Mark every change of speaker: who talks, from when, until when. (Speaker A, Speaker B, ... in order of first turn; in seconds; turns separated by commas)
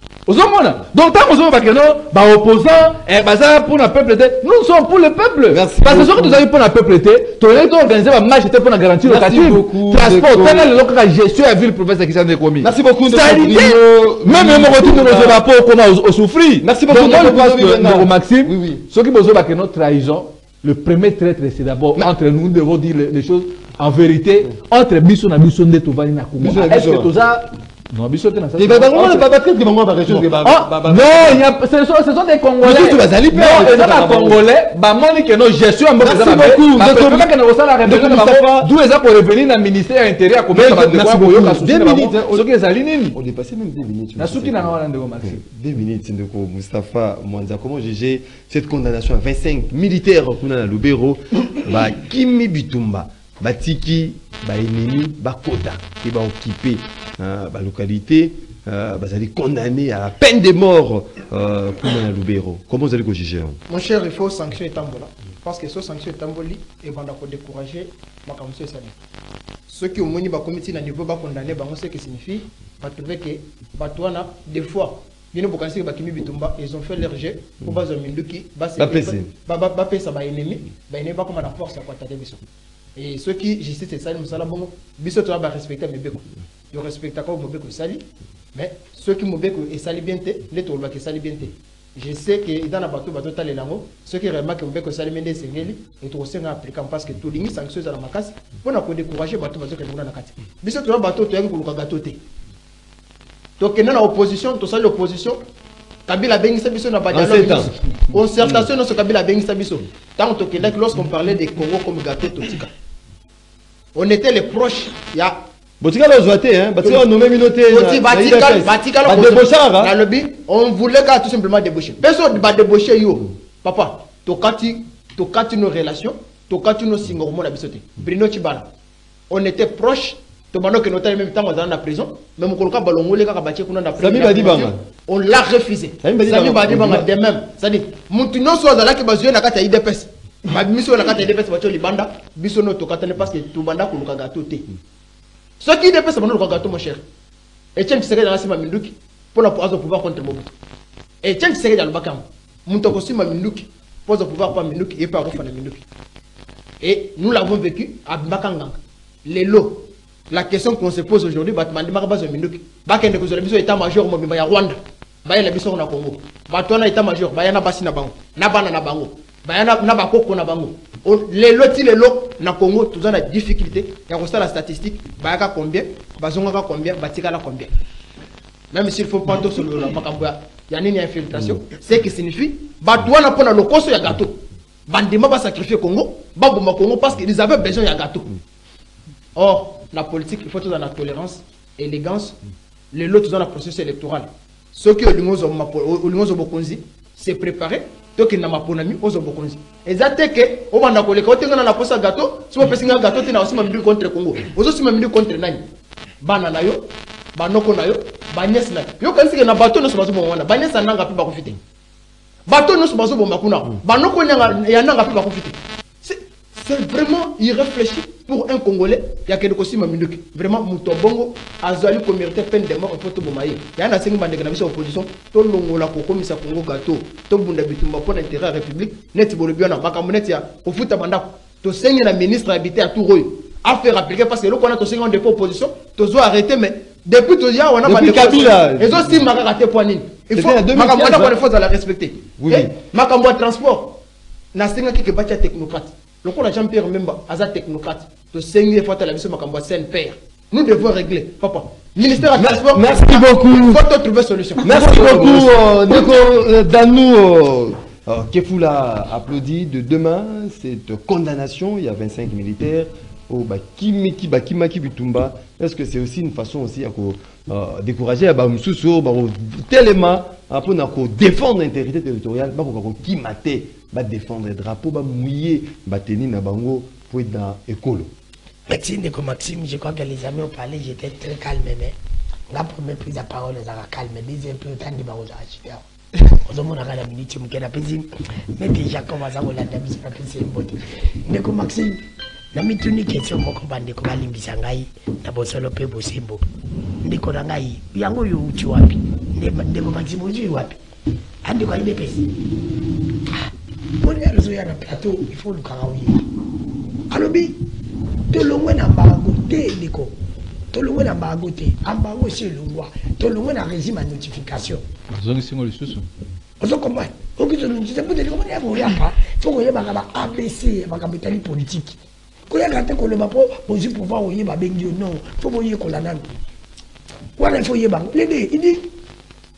Speaker A: 0.3-29.3, Speaker B: 5.5-6.4, Speaker B: 9.0-10.7, Speaker B: 12.6-15.4, Speaker B: 16.6-18.8, Speaker B: 26.4-27.1, Speaker B: 28.6-31.4, Speaker A: 30.0-43.2, Speaker B: 32.6-34.4, Speaker B: 36.0-37.3, Speaker B: 37.8-38.7, Speaker B: 40.5-42.5, Speaker B: 43.1-63.6, Speaker A: 44.2-45.4, Speaker C: 63.7-68.9, Speaker C: 69.7-82.4, Speaker B: 78.8-79.3, Speaker C: 83.0-102.2, Speaker C: 103.6-105.4, Speaker C: 106.1-112.7, Speaker B: 107.1-107.7, Speaker B: 108.4-108.7, Speaker C: 113.9-115.4, Speaker B: 115.8-119.9, Speaker C: 117.7-128.7, Speaker C: 129.3-144.7, Speaker B: 133.9-134.8, Speaker B: 136.0-137.1, Speaker C: 145.6-147.0, Speaker C: 147.7-150.5, Speaker C: 151.2-155.8, Speaker C: 156.8-177.7, Speaker C: 178.7-188.3, Speaker C: 189.3-192.4, Speaker C: 192.9-205.7, Speaker C: 206.2-211.6, Speaker C: 212.4-244.0, Speaker B: 237.8-239.2, Speaker B: 240.3-241.4, Speaker B: 242.4-242.7, Speaker C: 244.5-255.5, Speaker B: 252.3-253.8, Speaker B: 254.6-278.1, Speaker D: 278.7-281.9, Speaker D: 282.5-292.0, Speaker D: 292.5-296.4, Speaker D: 297.0-300.8, Speaker D: 301.4-302.3, Speaker D: 304.0-306.2, Speaker D: 307.1-307.6, Speaker D: 308.3-310.1, Speaker D: 310.7-314.8, Speaker A: 315.1-316.1, Speaker D: 316.6-322.0, Speaker D: 322.5-326.3, Speaker D: 327.4-328.9